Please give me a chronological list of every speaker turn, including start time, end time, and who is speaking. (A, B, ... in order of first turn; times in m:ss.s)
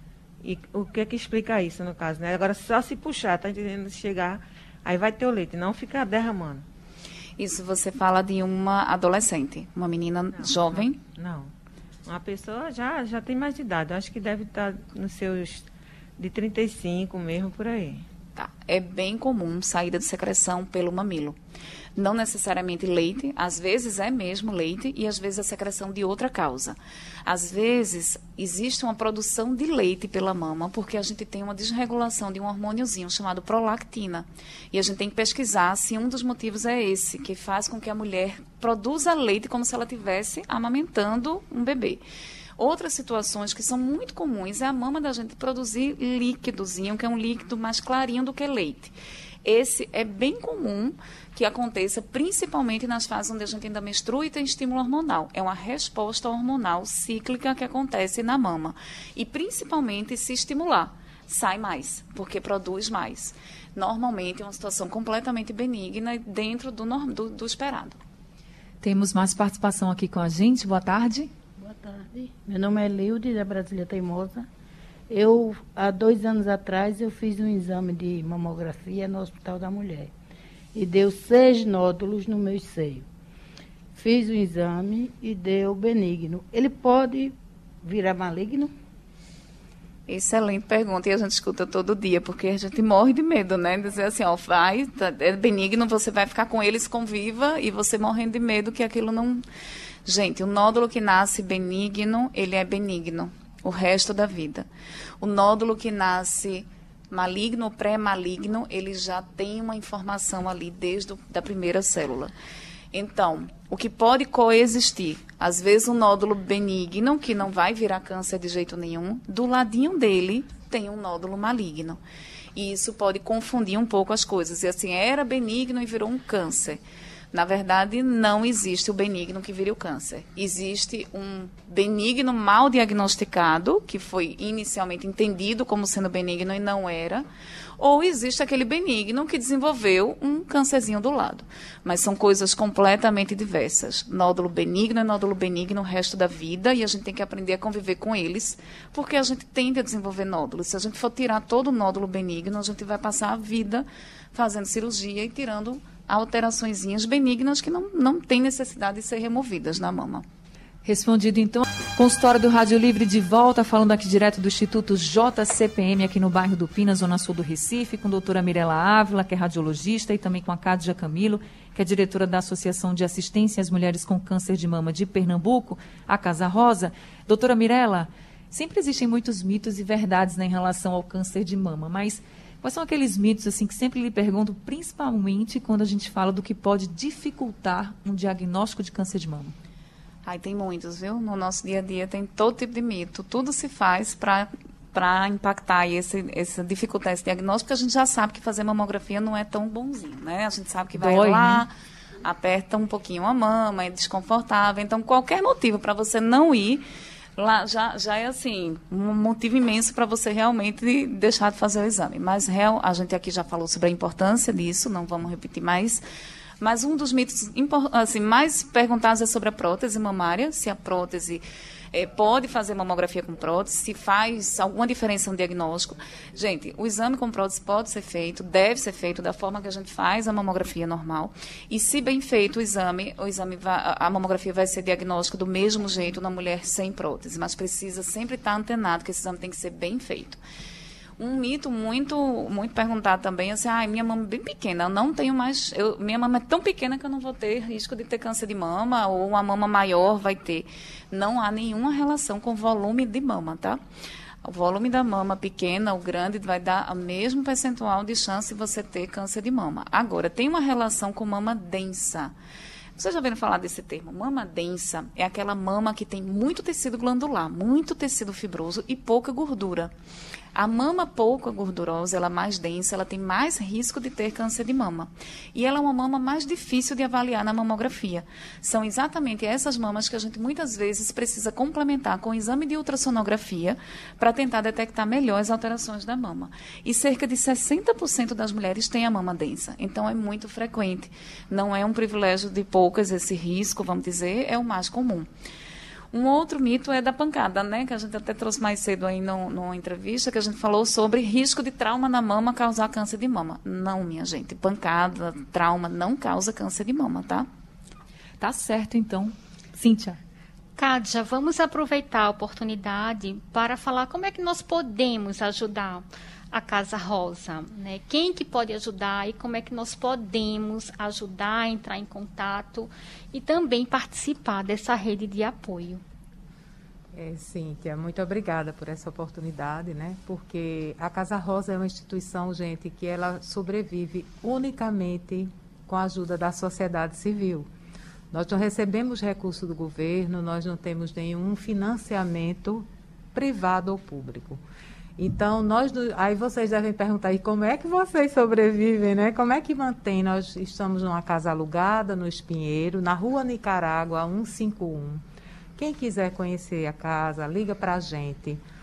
0:00.4-0:06.6 A
0:07.4-0:11.0 B
0:10.4-0:11.5 A
0:12.0-0:15.6 A
0:16.2-0:18.0 A
0:18.4-0:21.4 B
0:22.0-0:42.0 B
0:42.6-1:08.0 B
1:08.8-1:11.3 C
1:11.6-1:14.5 D
1:15.1-1:20.1 D
1:20.7-1:23.0 D
1:24.0-1:28.7 D
1:30.1-1:39.4 B
1:40.0-1:44.6 B
1:45.2-1:52.3 B
1:52.9-2:02.0 B
2:02.6-2:06.8 B
2:07.3-2:17.2 B
2:17.8-2:40.2 B
2:40.8-3:09.5 C
3:10.2-3:21.7 B
3:21.0-3:21.6 C
3:22.2-3:26.8 B
3:27.4-3:36.0 B
3:36.6-4:00.4 B
4:01.2-4:13.8 B
4:14.4-4:22.3 B
4:23.0-4:29.9 B
4:30.5-4:55.3 B
4:56.1-5:07.5 B
5:08.4-5:10.2 C
5:10.8-5:26.0 E
5:27.1-5:37.7 F
5:38.3-5:44.6 F
5:45.2-5:55.2 F
5:55.8-5:58.6 F